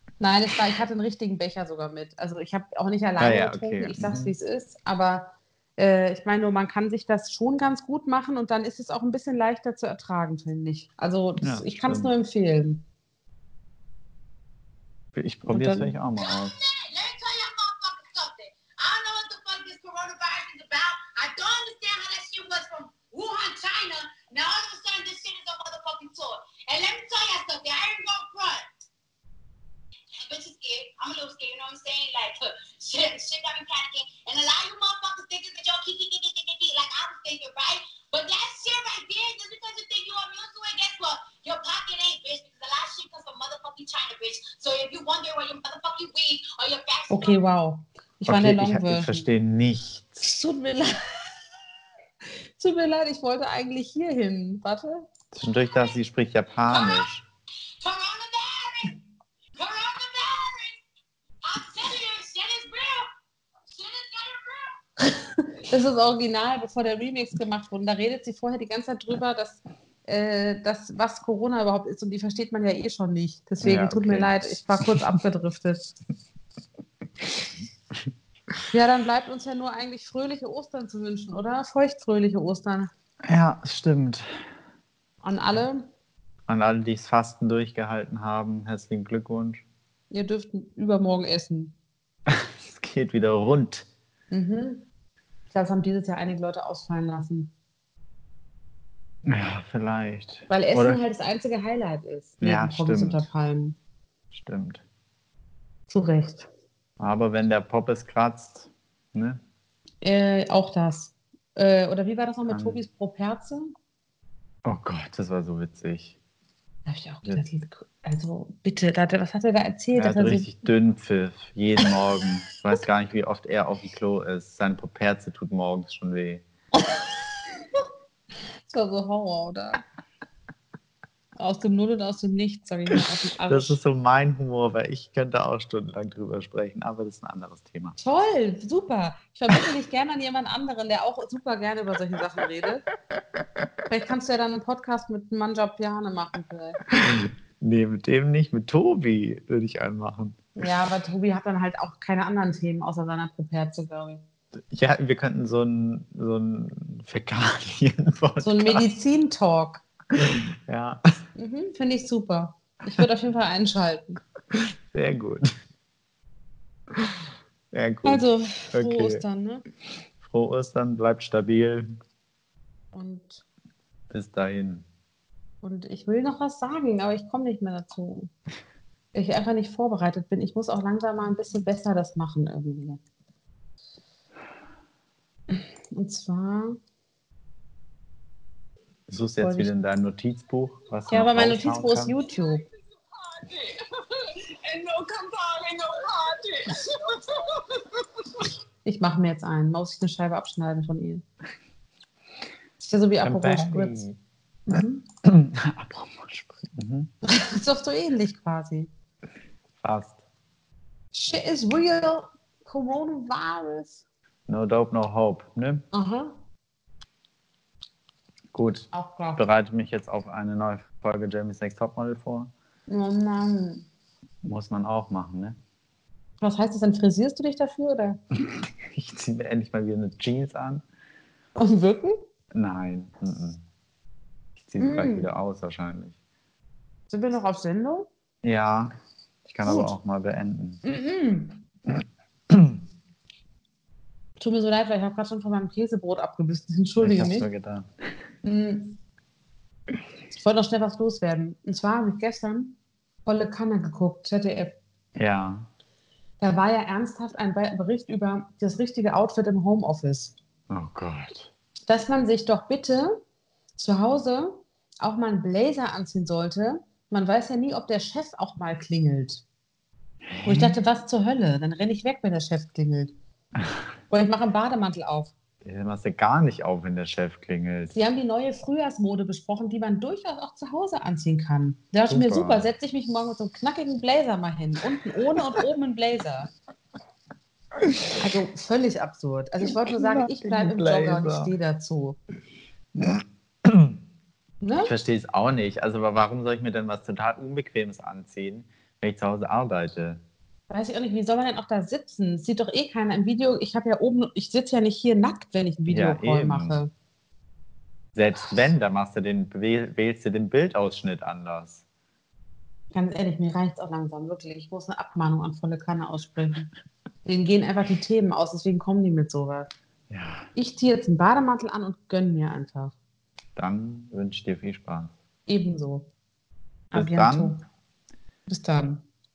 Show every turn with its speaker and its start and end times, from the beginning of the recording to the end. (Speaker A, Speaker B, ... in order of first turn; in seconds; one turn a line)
Speaker A: 0.2-12.8
Speaker B: 3.2-4.3
Speaker B: 11.4-12.1
Speaker B: 15.2-16.6
Speaker A: 15.5-16.0
Speaker C: 16.2-28.8
Speaker C: 30.2-47.4
Speaker A: 47.1-49.3
Speaker B: 48.3-50.2
Speaker A: 50.2-51.4
Speaker A: 52.2-55.0
Speaker B: 55.3-57.2
Speaker C: 56.7-57.1
Speaker C: 57.8-59.0
Speaker C: 59.6-60.8
Speaker C: 61.4-63.1
Speaker C: 63.7-64.8
Speaker A: 65.7-75.9
Speaker B: 73.6-75.0
Speaker A: 78.7-82.9
Speaker B: 83.2-84.4
Speaker A: 85.2-85.9
Speaker B: 86.5-89.6
Speaker A: 90.1-91.7
Speaker B: 92.3-93.9
Speaker A: 94.3-94.9
Speaker A: 95.5-97.5
Speaker B: 99.2-101.0
Speaker A: 100.5-103.8
Speaker B: 102.4-103.2
Speaker B: 104.3-104.8
Speaker A: 105.9-106.5
Speaker B: 107.0-109.4
Speaker A: 110.0-113.7
Speaker B: 112.5-112.8
Speaker B: 114.7-116.2
Speaker A: 116.9-120.5
Speaker B: 120.0-126.4
Speaker A: 128.7-129.8
Speaker A: 131.4-133.8
Speaker B: 133.5-138.0
Speaker A: 138.0-142.9
Speaker A: 143.9-147.0
Speaker B: 147.0-150.4
Speaker A: 150.6-154.2
Speaker B: 154.7-158.9
Speaker A: 158.4-159.8
Speaker B: 160.1-161.0
Speaker A: 161.3-164.2
Speaker B: 164.5-165.5
Speaker B: 167.7-169.2
Speaker A: 168.1-169.6
Speaker B: 170.2-171.9
Speaker A: 172.9-173.4
Speaker B: 174.1-174.9
Speaker A: 175.6-178.3
Speaker A: 179.1-183.0
Speaker A: 185.5-186.8
Speaker B: 189.1-192.2
Speaker A: 189.4-189.7
Speaker A: 191.1-192.7
Speaker C: 194.7-196.5
Speaker A: 198.8-201.2
Speaker A: 202.8-204.0
Speaker B: 203.2-204.2
Speaker A: 204.7-205.0
Speaker B: 205.2-207.1
Speaker A: 207.2-208.9
Speaker B: 209.8-210.2
Speaker A: 211.1-214.1
Speaker B: 214.5-215.8
Speaker A: 215.9-216.3
Speaker B: 218.5-222.5
Speaker A: 218.9-219.4
Speaker A: 222.9-223.9
Speaker B: 224.4-225.6
Speaker A: 226.4-228.2
Speaker B: 228.4-230.8
Speaker A: 231.6-232.2
Speaker B: 232.5-233.6
Speaker B: 234.6-236.2
Speaker A: 234.8-235.3
Speaker A: 237.1-238.1
Speaker B: 238.4-238.9
Speaker B: 239.5-240.8
Speaker A: 239.7-239.9
Speaker A: 240.8-241.6
Speaker B: 242.5-242.8
Speaker A: 244.4-247.5
Speaker B: 247.0-247.9
Speaker A: 248.4-249.0
Speaker A: 250.4-254.8
Speaker B: 255.2-255.7
Speaker A: 256.4-260.3
Speaker B: 260.7-261.5
Speaker A: 261.9-263.2
Speaker A: 263.8-269.4
Speaker B: 270.3-270.8
Speaker A: 270.4-273.1
Speaker A: 274.1-275.3
Speaker B: 275.6-277.9
Speaker A: 277.9-286.5
Speaker B: 282.1-282.7
Speaker A: 288.2-292.2
Speaker B: 289.8-291.5
Speaker B: 293.0-294.0
Speaker A: 294.6-294.9
Speaker B: 294.8-300.2
Speaker A: 300.7-306.9
Speaker B: 305.9-306.8
Speaker B: 308.1-311.8
Speaker A: 312.9-316.7
Speaker A: 317.2-319.7
Speaker B: 320.1-320.5
Speaker A: 320.6-322.9
Speaker B: 323.6-325.1
Speaker A: 325.5-326.1
Speaker A: 326.9-327.6
Speaker B: 326.9-327.6
Speaker A: 328.5-329.0